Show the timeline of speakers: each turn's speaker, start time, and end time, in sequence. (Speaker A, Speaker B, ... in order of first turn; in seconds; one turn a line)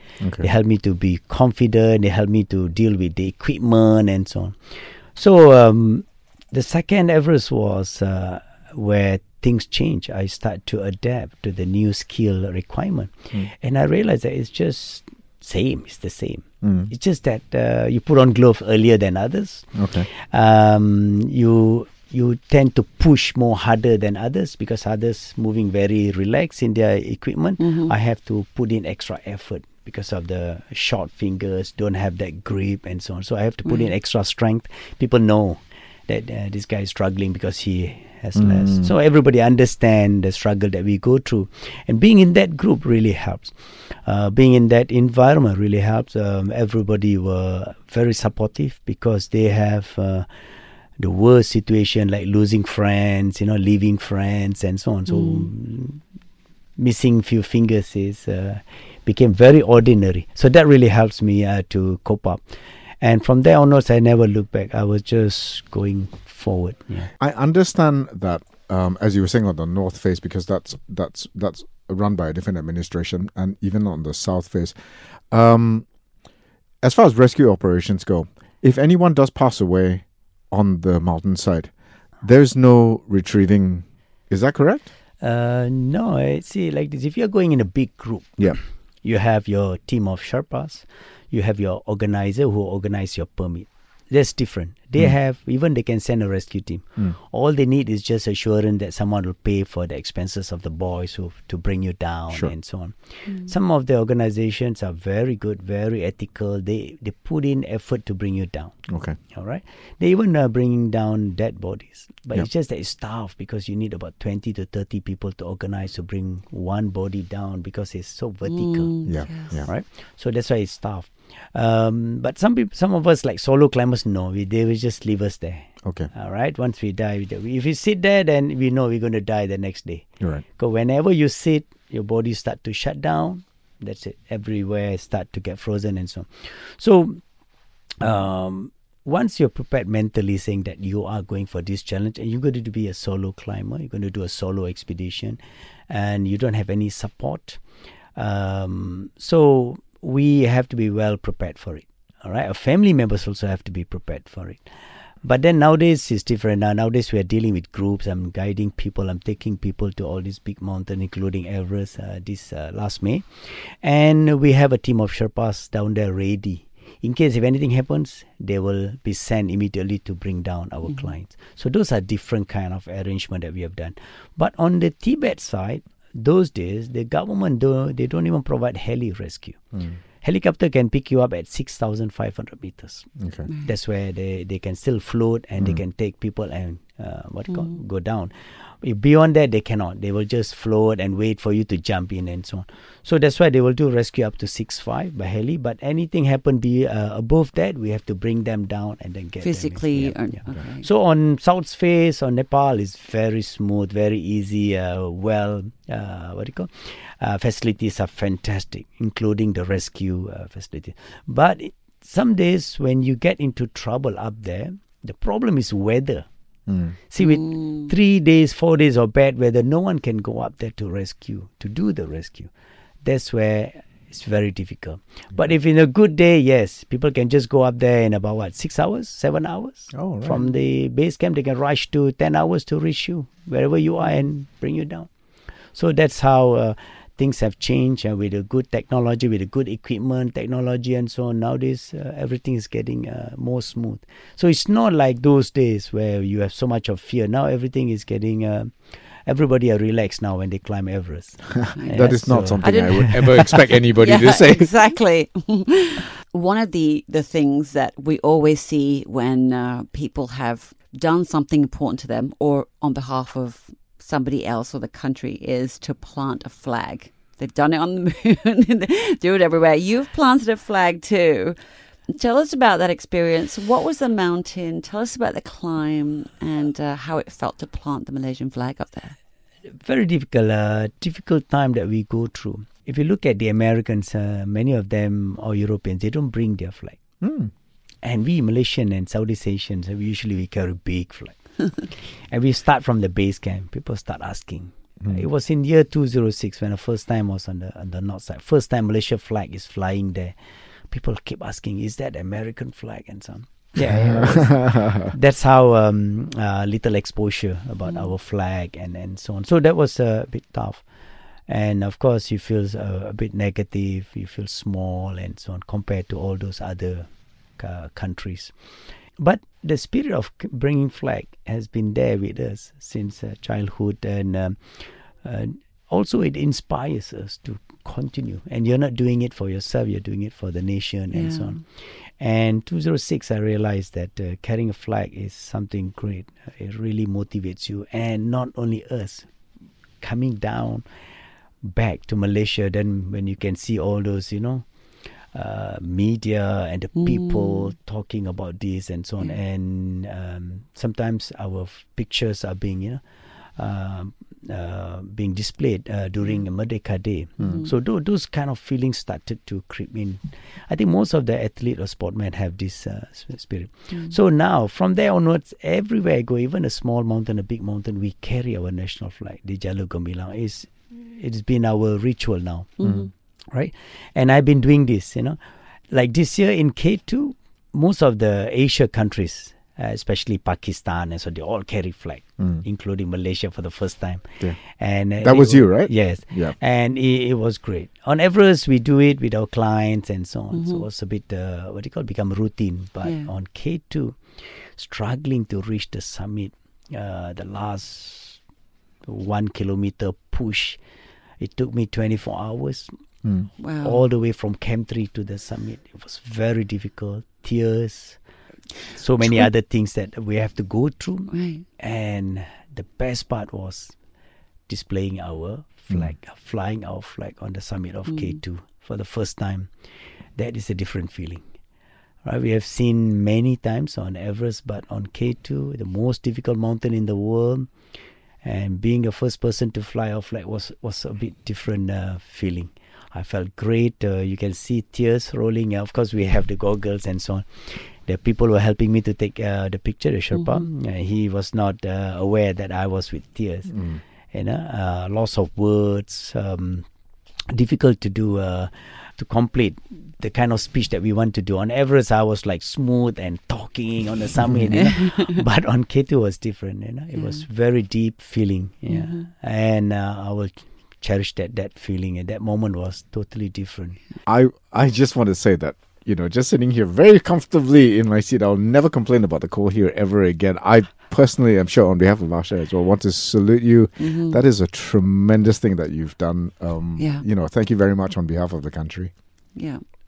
Speaker A: 0.2-0.5
Speaker B: 0.4-50.3
Speaker A: 16.6-16.9
Speaker A: 19.8-20.1
Speaker C: 27.6-27.9
Speaker A: 38.4-38.9
Speaker B: 51.0-56.0
Speaker C: 55.1-55.5
Speaker B: 56.8-62.5
Speaker B: 63.0-67.1
Speaker A: 67.2-74.7
Speaker A: 75.3-75.9
Speaker A: 76.8-81.7
Speaker A: 82.2-84.9
Speaker B: 85.2-108.8
Speaker A: 108.9-109.2
Speaker B: 109.3-137.2
Speaker C: 118.5-119.7
Speaker A: 119.1-119.7
Speaker A: 125.8-126.1
Speaker B: 138.0-147.6
Speaker B: 148.2-154.6
Speaker B: 155.2-179.6
Speaker B: 180.2-183.1
Speaker A: 183.2-183.5
Speaker B: 183.6-216.3
Speaker C: 199.4-200.9
Speaker A: 216.7-217.0
Speaker B: 217.1-222.5
Speaker C: 217.2-217.9
Speaker B: 223.0-235.1
Speaker A: 229.9-230.4
Speaker B: 235.7-253.3
Speaker C: 251.8-271.6
Speaker A: 251.9-254.7
Speaker C: 272.1-279.2
Speaker B: 279.7-287.0
Speaker A: 287.2-287.5
Speaker B: 288.0-300.4
Speaker B: 300.9-310.8
Speaker A: 303.8-305.1
Speaker B: 311.5-317.1
Speaker B: 317.6-318.5
Speaker B: 319.2-339.3
Speaker C: 331.1-331.6
Speaker B: 340.0-340.9
Speaker B: 341.6-344.7
Speaker B: 345.2-372.8
Speaker C: 347.0-347.7
Speaker C: 372.8-373.1
Speaker B: 373.5-375.4
Speaker B: 375.9-398.4
Speaker A: 385.2-386.6
Speaker C: 390.5-390.8
Speaker C: 393.0-393.3
Speaker B: 399.1-400.8
Speaker B: 401.4-402.9
Speaker C: 403.6-404.1
Speaker B: 403.8-408.2
Speaker B: 408.9-413.9
Speaker C: 411.3-411.6
Speaker B: 414.7-419.7
Speaker C: 418.1-418.4
Speaker B: 420.4-421.4
Speaker B: 422.2-427.7
Speaker B: 428.4-446.9
Speaker A: 443.7-444.0
Speaker B: 447.5-464.0
Speaker C: 457.1-457.4
Speaker C: 458.9-459.2
Speaker A: 464.3-479.1
Speaker C: 474.0-474.4
Speaker C: 477.0-477.2
Speaker C: 479.6-479.8